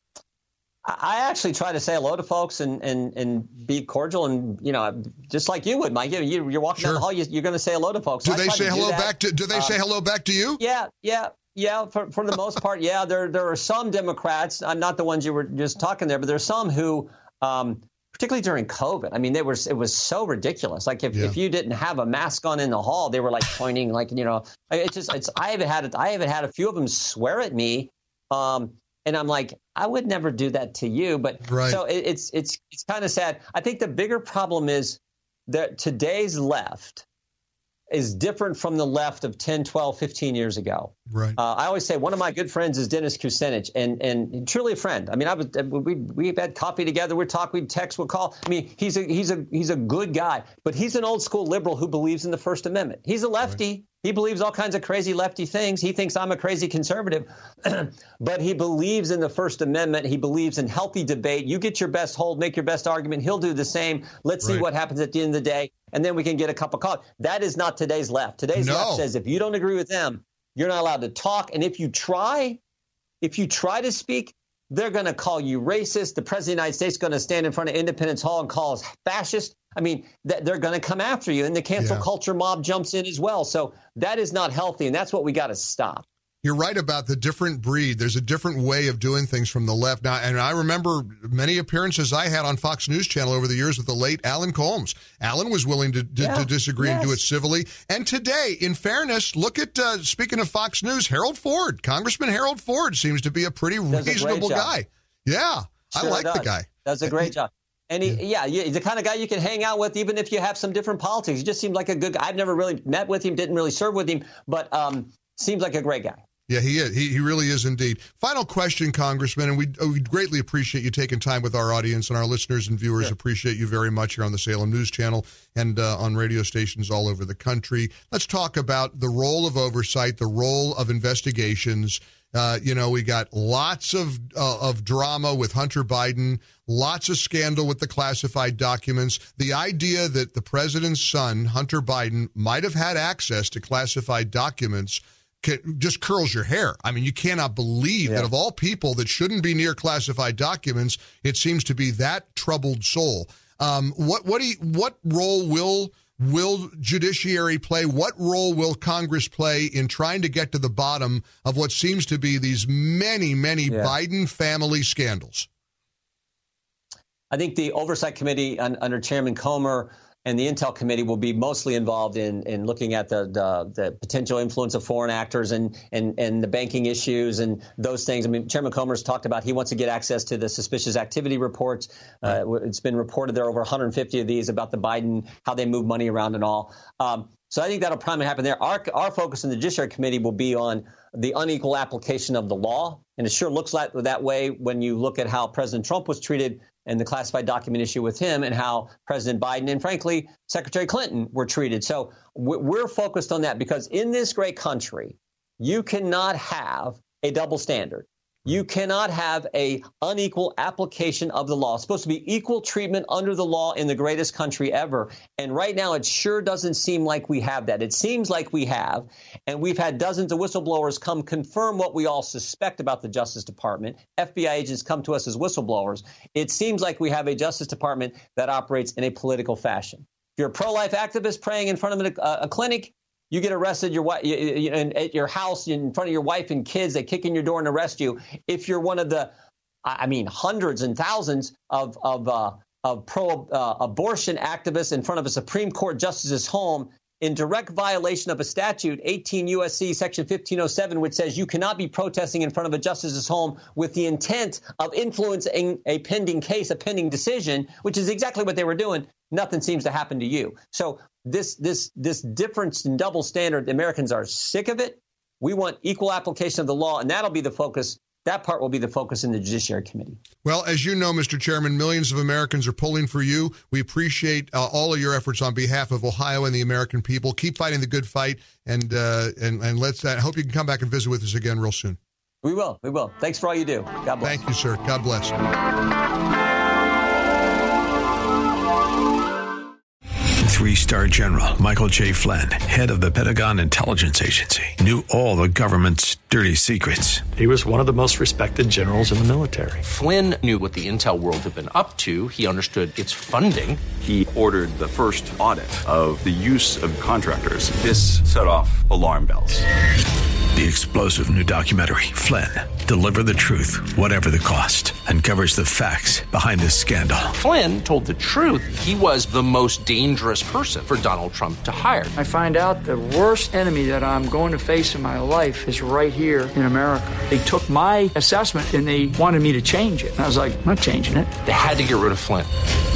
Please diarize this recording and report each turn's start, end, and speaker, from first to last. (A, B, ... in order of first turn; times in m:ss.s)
0:00.8-0:09.8 A
0:06.8-0:07.0 B
0:08.2-0:10.6 B
0:10.6-0:37.0 A
0:31.5-0:31.8 B
0:37.9-1:12.6 A
0:41.1-0:41.4 B
1:08.5-1:09.0 B
1:13.2-1:26.0 A
1:21.8-1:22.0 B
1:26.4-1:47.3 B
1:36.2-1:37.2 A
1:43.9-1:44.7 A
1:45.9-1:56.2 A
1:56.5-2:45.5 B
2:28.0-2:28.3 A
2:43.7-2:43.9 A
2:47.3-3:59.3 A
3:59.8-4:30.2 A
4:30.4-4:42.0 B
4:42.4-4:44.4 A
4:44.2-4:45.3 B
4:50.4-4:57.3 C
4:57.4-4:59.7 D
4:59.8-5:03.8 E
5:04.0-5:09.6 F
5:10.5-5:17.3 C
5:17.3-5:22.1 E
5:22.2-5:31.3 G
5:31.4-5:32.5 E